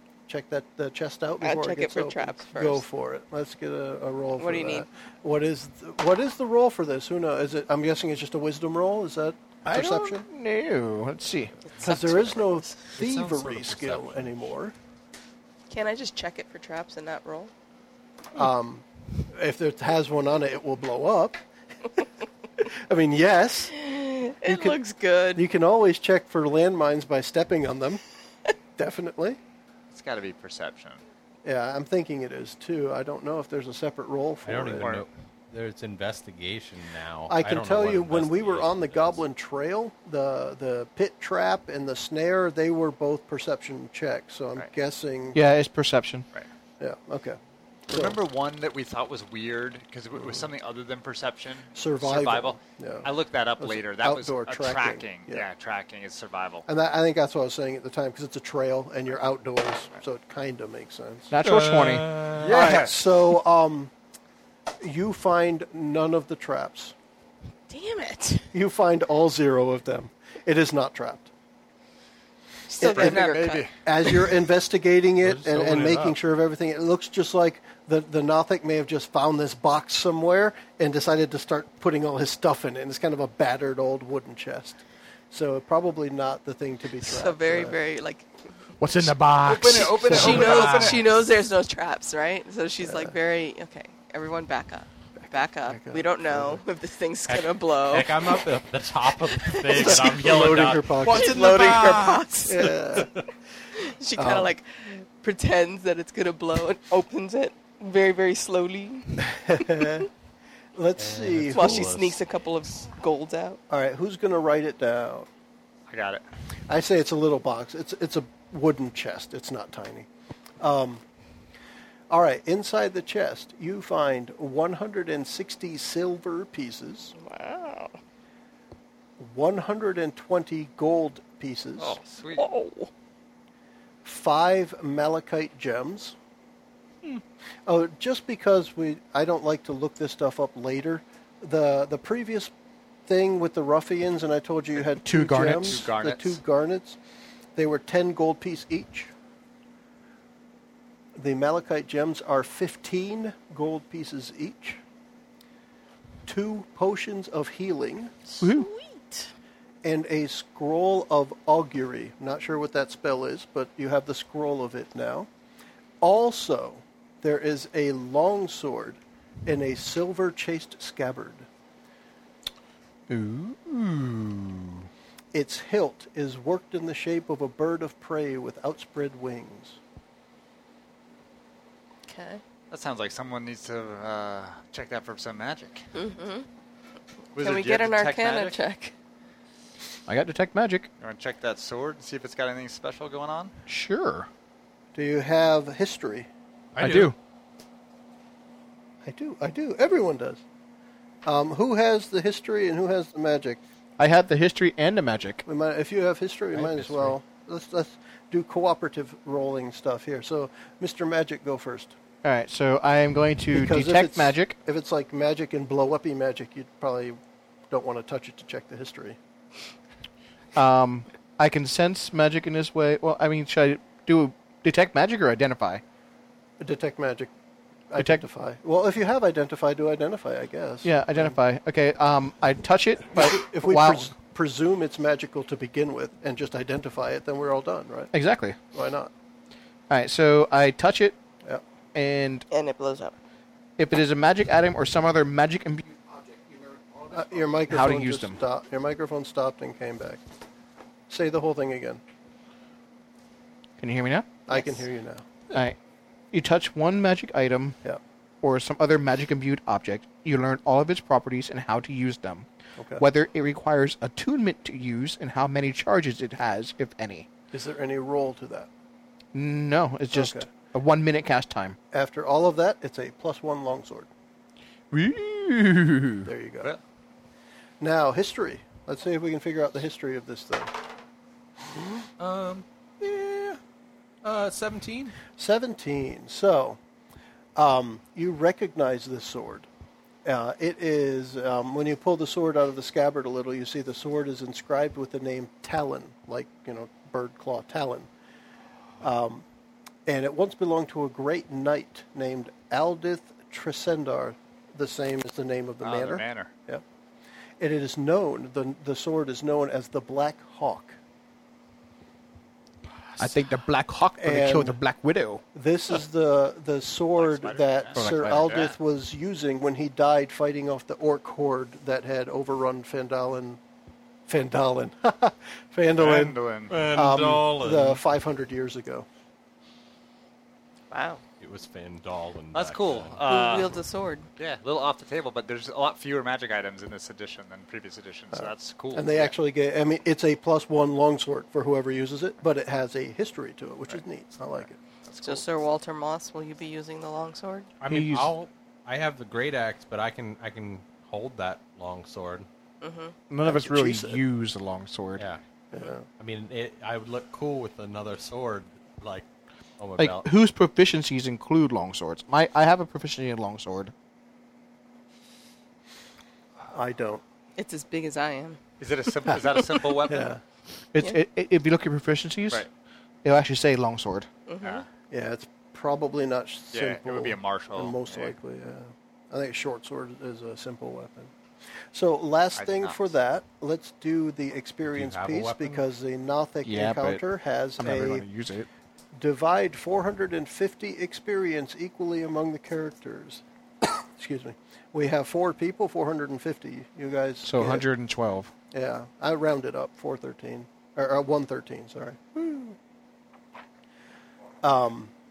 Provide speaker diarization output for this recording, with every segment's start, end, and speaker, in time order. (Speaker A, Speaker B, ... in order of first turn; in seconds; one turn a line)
Speaker A: 0.3-10.2
Speaker B: 1.4-2.8
Speaker B: 4.4-4.8
Speaker C: 9.7-11.6
Speaker B: 11.7-12.8
Speaker A: 11.8-14.7
Speaker D: 13.0-14.4
Speaker B: 15.7-17.5
Speaker A: 18.3-21.4
Speaker A: 22.6-23.8
Speaker B: 23.7-25.4
Speaker A: 24.4-24.8
Speaker A: 25.3-28.0
Speaker A: 28.8-29.4
Speaker E: 29.9-31.0
Speaker A: 31.4-35.0
Speaker D: 34.4-39.2
Speaker E: 34.8-35.0
Speaker A: 37.3-45.4
Speaker C: 45.3-46.2
Speaker A: 46.8-48.2
Speaker E: 47.9-56.6
Speaker A: 50.1-50.5
Speaker A: 51.7-53.1
Speaker A: 53.6-55.4
Speaker A: 56.7-61.3
Speaker C: 61.3-62.1
Speaker D: 61.4-62.6
Speaker E: 62.2-63.1
Speaker A: 62.5-63.9
Speaker A: 64.8-66.9
Speaker B: 67.7-68.5
Speaker A: 68.5-71.3
Speaker B: 72.7-73.7
Speaker A: 72.8-87.8
Speaker E: 72.8-73.7
Speaker D: 75.2-76.2
Speaker B: 87.0-88.3
Speaker C: 88.8-90.4
Speaker E: 89.5-91.0
Speaker B: 89.9-98.4
Speaker D: 90.1-91.0
Speaker A: 92.8-93.1
Speaker A: 95.2-96.6
Speaker D: 97.3-102.3
Speaker B: 99.2-100.4
Speaker A: 99.7-101.5
Speaker B: 101.0-102.8
Speaker A: 102.5-103.1
Speaker B: 103.8-110.0
Speaker A: 104.2-104.5
Speaker A: 109.3-110.1
Speaker A: 110.7-111.9
Speaker D: 111.0-112.2
Speaker B: 111.5-113.6
Speaker A: 113.7-115.3
Speaker E: 115.9-116.2
Speaker A: 116.7-120.1
Speaker A: 120.6-121.0
Speaker A: 122.1-127.1
Speaker B: 127.1-127.9
Speaker A: 129.2-132.0
Speaker E: 131.8-132.4
Speaker B: 132.3-132.9
Speaker A: 134.0-136.2
Speaker A: 137.7-142.5
Speaker A: 143.1-147.0
Speaker C: 145.0-145.8
Speaker E: 145.4-146.4
Speaker A: 147.6-149.1
Speaker A: 151.2-154.8
Speaker A: 156.2-158.1
Speaker B: 158.3-159.3
Speaker C: 158.4-158.7
Speaker A: 159.8-165.3
Speaker A: 166.0-171.5
Speaker C: 173.1-174.9
Speaker A: 175.3-179.8
Speaker B: 182.1-182.4
Speaker E: 182.7-185.9
Speaker B: 185.9-186.5
Speaker E: 187.3-188.6
Speaker B: 187.4-188.9
Speaker C: 190.1-190.9
Speaker E: 191.0-193.5
Speaker C: 193.7-194.3
Speaker A: 194.9-196.3
Speaker D: 196.7-197.1
Speaker C: 196.8-197.1
Speaker A: 199.0-200.4
Speaker A: 201.2-203.6
Speaker C: 204.0-205.4
Speaker A: 205.4-211.9
Speaker D: 206.5-207.1
Speaker C: 212.2-214.6
Speaker A: 213.5-217.2
Speaker A: 217.7-219.2
Speaker C: 220.5-225.8
Speaker A: 226.6-227.3
Speaker A: 227.9-231.3
Speaker C: 228.0-228.2
Speaker C: 230.8-234.1
Speaker A: 233.1-238.1
Speaker C: 238.1-238.6
Speaker A: 238.7-239.1
Speaker C: 239.9-241.2
Speaker C: 241.9-242.4
Speaker B: 242.5-243.1
Speaker C: 243.8-245.9
Speaker A: 247.1-250.2
Speaker C: 247.6-248.4
Speaker A: 251.1-252.0
Speaker C: 253.8-254.3
Speaker A: 254.5-255.2
Speaker B: 254.5-254.8
Speaker C: 255.5-255.8
Speaker C: 256.3-257.8
Speaker C: 258.4-267.3
Speaker A: 262.8-263.0
Speaker A: 267.5-268.7
Speaker C: 269.3-271.8
Speaker A: 270.1-270.5
Speaker A: 271.9-274.1
Speaker C: 274.9-276.3
Speaker A: 276.2-276.7
Speaker A: 277.8-280.7
Speaker D: 282.2-283.6
Speaker D: 284.2-285.2
Speaker A: 285.4-286.8
Speaker A: 287.6-289.7
Speaker A: 290.2-298.1
Speaker A: 299.0-299.4
Speaker A: 300.1-306.8
Speaker E: 305.8-306.5
Speaker A: 307.6-311.0
Speaker D: 313.0-313.4
Speaker C: 313.2-315.4
Speaker A: 314.2-314.8
Speaker A: 315.5-323.6
Speaker E: 317.2-318.8
Speaker C: 317.9-318.5
Speaker A: 324.3-329.1
Speaker E: 326.0-326.7
Speaker D: 326.7-328.0
Speaker B: 330.9-331.2
Speaker D: 331.4-333.2
Speaker E: 332.5-333.8
Speaker B: 333.2-334.3
Speaker E: 334.4-339.4
Speaker A: 338.3-344.8
Speaker E: 344.6-345.4
Speaker B: 345.2-347.7
Speaker D: 347.8-352.5
Speaker C: 347.9-348.3
Speaker B: 352.8-353.1
Speaker C: 353.3-355.2
Speaker A: 353.4-354.2
Speaker D: 355.2-355.4
Speaker A: 355.7-356.1
Speaker D: 356.2-359.2
Speaker D: 359.8-360.3
Speaker C: 360.0-363.9
Speaker A: 366.7-367.2
Speaker B: 367.6-368.6
Speaker E: 368.8-370.3
Speaker A: 369.3-370.4
Speaker C: 370.9-372.7
Speaker C: 373.2-374.3
Speaker B: 374.5-374.8
Speaker A: 375.1-381.3
Speaker E: 376.7-378.3
Speaker A: 381.9-388.2
Speaker E: 382.5-383.1
Speaker D: 384.9-385.8
Speaker C: 386.6-387.2
Speaker C: 387.8-388.7
Speaker A: 389.1-397.9
Speaker C: 397.4-398.5
Speaker A: 398.7-402.8
Speaker A: 404.6-405.1